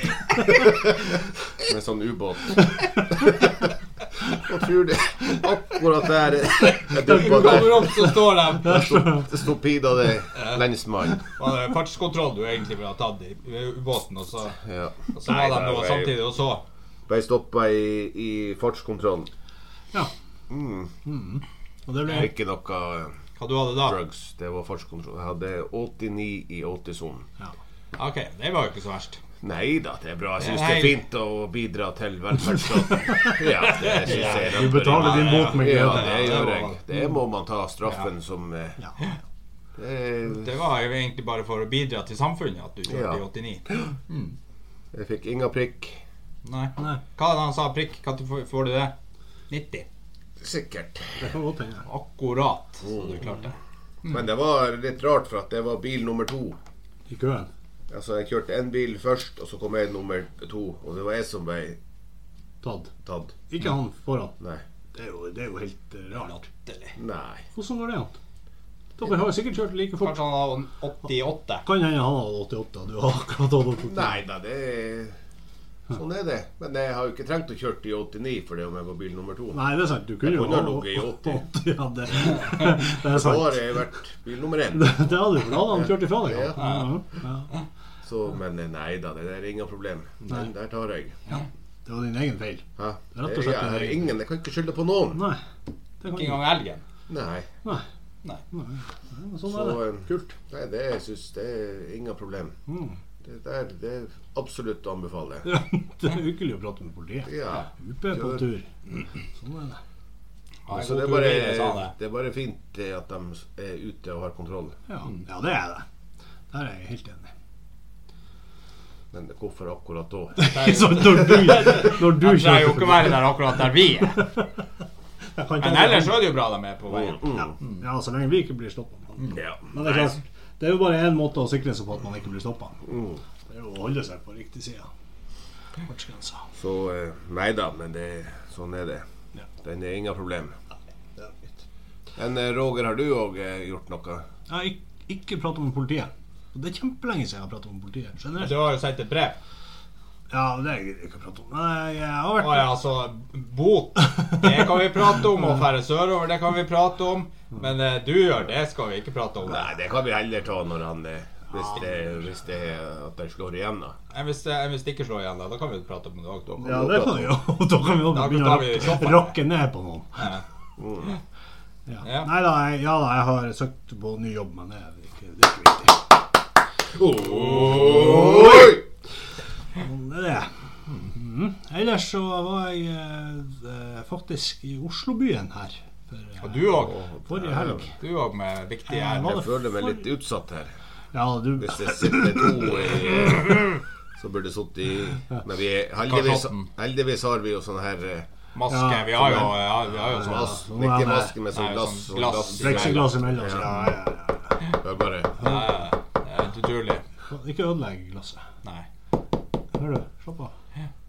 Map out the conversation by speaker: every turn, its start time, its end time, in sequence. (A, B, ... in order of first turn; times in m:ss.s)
0:00.4-0:03.6 A
0:04.3-0:11.2 A
0:06.6-0:09.0 B
0:07.1-0:09.3 C
0:10.4-0:10.6 B
0:11.2-0:14.6 B
0:14.6-0:16.2 A
0:15.1-0:16.6 B
0:17.1-0:19.3 A
0:20.5-0:20.9 A
0:21.0-0:22.3 C
0:22.1-0:23.2 A
0:23.4-0:24.0 B
0:23.7-0:27.3 A
0:28.0-0:29.2 B
0:29.4-0:38.8 A
0:30.4-0:31.0 B
0:32.9-0:33.4 C
0:33.6-0:36.8 B
0:34.0-0:36.2 C
0:38.8-0:39.2 C
0:39.8-0:40.6 A
0:40.3-0:44.4 B
0:42.9-0:43.2 A
0:44.9-0:46.0 A
0:46.4-0:48.9 B
0:49.5-0:49.9 B
0:50.4-0:51.3 A
0:51.2-0:51.9 C
0:51.9-0:54.2 B
0:52.8-0:53.3 A
0:54.0-0:56.6 A
0:57.1-0:57.5 C
0:57.9-1:01.8 A
1:02.6-1:02.9 C
1:03.0-1:03.3 A
1:03.5-1:04.4 C
1:04.9-1:06.4 C
1:06.3-1:07.0 B
1:07.0-1:07.4 A
1:07.6-1:08.2 C
1:09.0-1:10.2 C
1:10.0-1:11.6 B
1:11.6-1:14.2 C
1:13.9-1:15.2 A
1:15.9-1:19.6 A
1:19.5-1:23.9 C
1:20.2-1:21.4 A
1:22.9-1:26.8 A
1:24.7-1:27.5 C
1:26.6-1:27.0 B
1:28.0-1:31.2 A
1:31.4-1:34.1 C
1:32.8-1:35.2 A
1:35.1-1:35.4 C
1:36.0-1:36.4 C
1:36.1-1:36.8 B
1:37.1-1:37.5 A
1:38.5-1:40.4 C
1:39.5-1:42.6 A
1:42.7-1:43.0 C
1:43.2-1:45.5 A
1:45.4-1:48.7 C
1:47.2-1:48.5 A
1:49.4-1:49.8 C
1:50.7-1:51.9 B
1:50.7-1:54.8 A
1:54.9-1:55.9 C
1:56.5-1:57.3 C
1:59.1-2:00.5 A
2:00.4-2:03.4 C
2:00.5-2:04.2 B
2:04.1-2:04.5 C
2:05.4-2:06.3 C
2:05.6-2:07.8 B
2:06.9-2:07.5 A
2:07.4-2:12.8 C
2:09.2-2:10.1 B
2:09.3-2:09.7 A
2:12.8-2:13.2 A
2:13.5-2:14.9 C
2:15.8-2:16.5 C
2:16.6-2:19.0 A
2:19.6-2:20.6 A
2:21.2-2:21.6 C
2:22.2-2:24.3 A
2:24.5-2:28.6 C
2:28.4-2:29.4 B
2:30.3-2:32.7 C
2:32.4-2:39.7 B
2:39.4-2:44.0 A
2:44.1-2:46.5 B
2:46.5-2:47.4 A
2:46.6-2:50.4 C
2:48.0-2:49.4 B
2:50.2-2:50.4 B
2:50.8-2:51.2 A
2:51.9-2:56.0 C
2:52.0-2:52.3 B
2:56.9-2:58.8 A
2:57.8-2:58.8 C
2:59.8-3:00.5 C
3:01.0-3:06.8 C
3:06.4-3:07.0 B
3:06.7-3:07.9 A
3:07.3-3:07.9 C
3:08.0-3:09.4 B
3:08.9-3:10.0 C
3:09.3-3:10.7 A
3:11.1-3:13.4 C
3:11.6-3:18.3 A
3:16.0-3:16.7 B
3:18.6-3:20.6 B
3:18.7-3:21.4 C
3:19.2-3:23.7 A
3:21.5-3:23.9 B
3:22.5-3:24.6 C
3:24.8-3:25.4 A
3:25.4-3:27.0 B
3:25.4-3:25.6 C
3:27.3-3:28.5 C
3:29.8-3:30.5 C